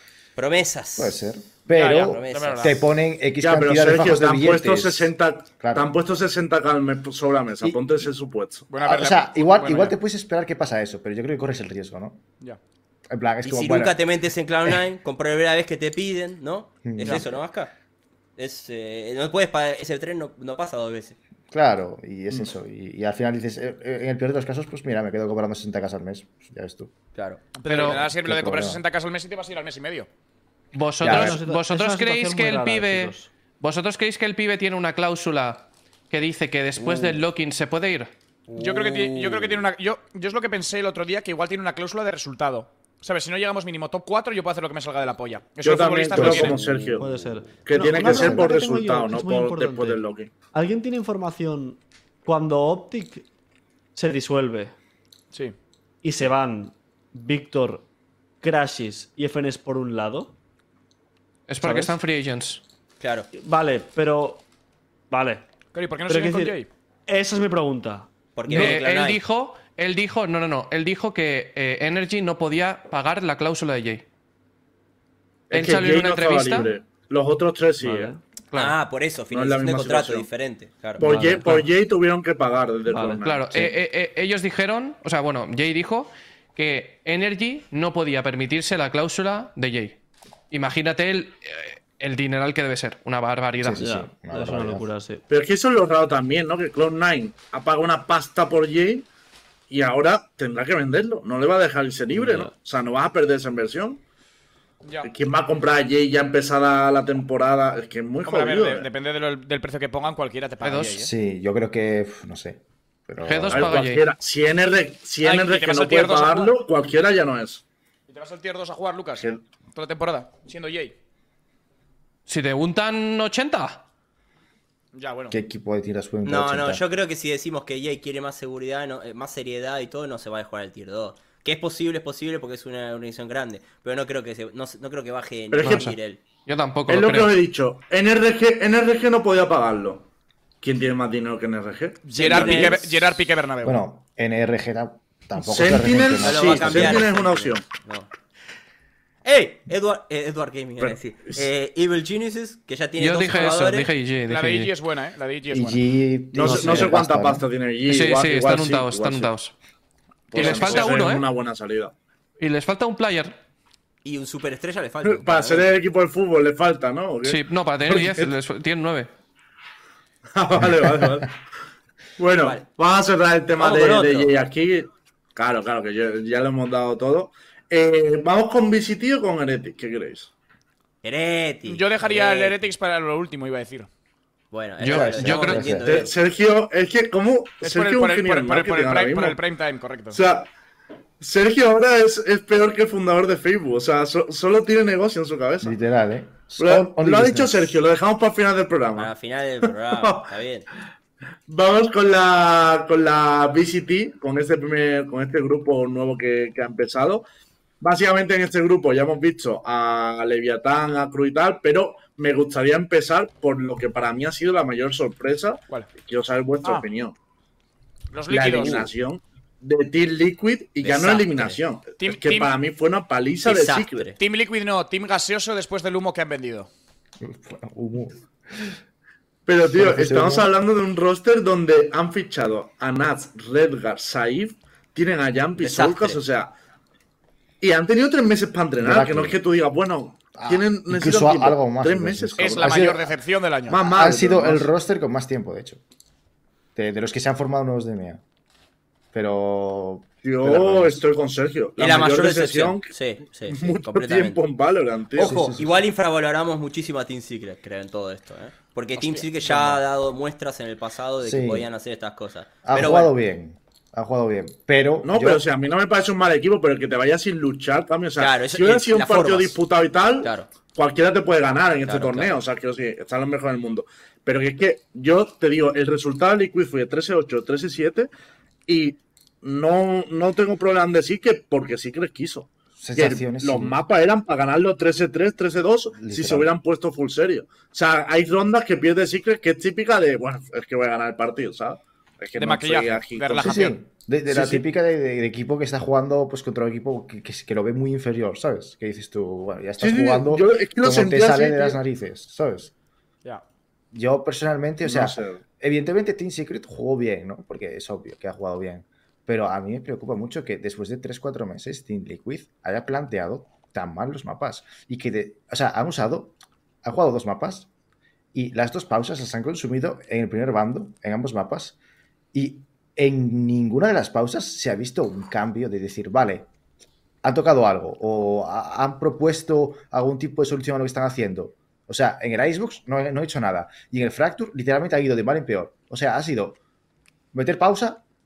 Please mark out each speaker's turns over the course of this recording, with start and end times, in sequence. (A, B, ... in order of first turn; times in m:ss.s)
0:00.4-0:01.2 A
0:01.0-0:05.9 B
0:01.7-0:02.8 C
0:02.0-0:02.8 A
0:03.4-0:08.7 D
0:08.7-0:10.0 C
0:08.8-0:12.2 B
0:13.1-0:14.0 B
0:13.4-0:17.7 A
0:16.9-0:17.3 B
0:18.4-0:21.2 A
0:21.5-0:26.9 B
0:27.2-0:27.5 A
0:27.6-0:30.1 C
0:27.7-0:28.0 E
0:27.9-0:28.8 B
0:30.7-0:38.1 E
0:31.0-0:31.4 B
0:31.0-0:33.3 F
0:36.8-0:37.2 A
0:38.5-0:39.6 A
0:38.6-0:46.6 C
0:45.6-0:47.1 D
0:46.2-0:46.5 B
0:47.0-0:50.0 F
0:47.6-0:50.3 D
0:47.9-0:48.5 B
0:50.5-0:53.2 F
0:54.0-0:54.7 F
0:56.0-0:57.9 F
0:58.4-1:00.3 F
1:01.5-1:02.6 E
1:01.6-1:02.0 F
1:03.0-1:03.3 A
1:03.3-1:04.4 F
1:05.1-1:05.4 F
1:05.7-1:06.7 C
1:06.1-1:08.8 F
1:08.4-1:09.2 A
1:08.5-1:14.0 E
1:15.5-1:18.1 D
1:15.5-1:16.7 E
1:17.8-1:18.2 F
1:18.6-1:21.0 A
1:19.3-1:20.3 D
1:21.0-1:23.7 D
1:21.0-1:21.6 F
1:21.3-1:21.6 E
1:22.9-1:23.2 F
1:23.1-1:30.0 E
1:30.5-1:33.8 E
1:33.6-1:34.9 B
1:33.8-1:35.2 F
1:35.3-1:39.1 D
1:39.7-1:44.0 D
1:42.1-1:42.5 F
1:44.8-1:45.1 C
1:45.0-1:48.9 D
1:48.2-1:51.1 C
1:50.6-1:51.0 E
1:51.0-1:53.8 B
1:53.2-1:54.0 E
1:53.5-1:57.6 D
1:55.2-1:56.6 C
1:58.1-2:01.0 C
2:02.3-2:03.8 E
2:04.9-2:05.4 C
2:05.3-2:06.8 B
2:06.2-2:16.2 A
2:15.5-2:15.9 D
2:16.5-2:17.3 E
2:16.9-2:20.1 D
2:20.6-2:22.8 D
2:22.0-2:23.8 C
2:22.2-2:22.9 A
2:23.6-2:27.1 B
2:25.4-2:27.7 D
2:26.2-2:28.1 A
2:29.2-2:33.9 A
2:30.8-2:31.5 D
2:33.0-2:34.7 E
2:34.3-2:35.8 C
2:35.5-2:37.4 B
2:36.3-2:39.3 D
2:37.9-2:39.6 E
2:40.3-2:41.9 D
2:40.4-2:41.3 E
2:40.4-2:40.8 A
2:42.4-2:43.4 E
2:44.0-2:45.7 A
2:45.0-2:48.3 D
2:47.2-2:49.1 E
2:50.4-2:51.3 D
2:52.2-3:00.3 D
2:52.4-2:52.7 A
2:53.6-2:54.3 A
3:01.0-3:02.6 A
3:01.7-3:03.9 C
3:04.5-3:06.1 A
3:04.8-3:05.8 E
3:04.9-3:05.9 B
3:05.8-3:09.4 D
3:07.6-3:10.2 C
3:10.1-3:10.5 D
3:11.2-3:15.8 D
3:15.6-3:17.8 B
3:16.6-3:19.1 D
3:19.0-3:20.7 A
3:19.9-3:20.3 D
3:21.5-3:27.2 D
3:27.8-3:37.2 D
3:38.1-3:38.9 C
3:38.3-3:44.1 D
3:40.8-3:41.6 A
3:42.0-3:42.6 C
3:43.4-3:44.2 A
3:44.2-3:46.7 C
3:47.2-3:48.8 B
3:49.5-3:56.5 D
3:49.7-3:50.5 B
3:55.6-3:56.2 A
3:57.6-4:02.9 D
3:58.8-3:59.4 B
4:00.4-4:03.2 B
4:02.4-4:03.8 C
4:03.7-4:04.7 D
4:03.7-4:05.8 B
4:06.8-4:08.2 B
4:09.1-4:11.0 B
4:10.2-4:13.0 D
4:11.8-4:14.4 A
4:13.5-4:15.4 D
4:15.2-4:23.1 A
4:15.2-4:15.9 B
4:19.0-4:19.3 C
4:21.2-4:21.7 B
4:22.6-4:25.4 B
4:25.0-4:38.1 D
4:28.2-4:29.6 A
4:30.2-4:30.5 A
4:31.8-4:32.4 A
4:38.7-4:53.8 D
4:42.8-4:43.8 B
4:46.0-4:46.5 B
4:52.4-4:53.8 C
4:53.4-5:02.7 B
4:54.3-4:54.6 D
4:59.8-5:01.8 D
5:03.9-5:17.7 B
5:04.8-5:05.4 D
5:18.3-5:21.8 B
5:22.3-5:26.5 B
5:27.2-5:36.6 B
5:37.3-5:38.0 B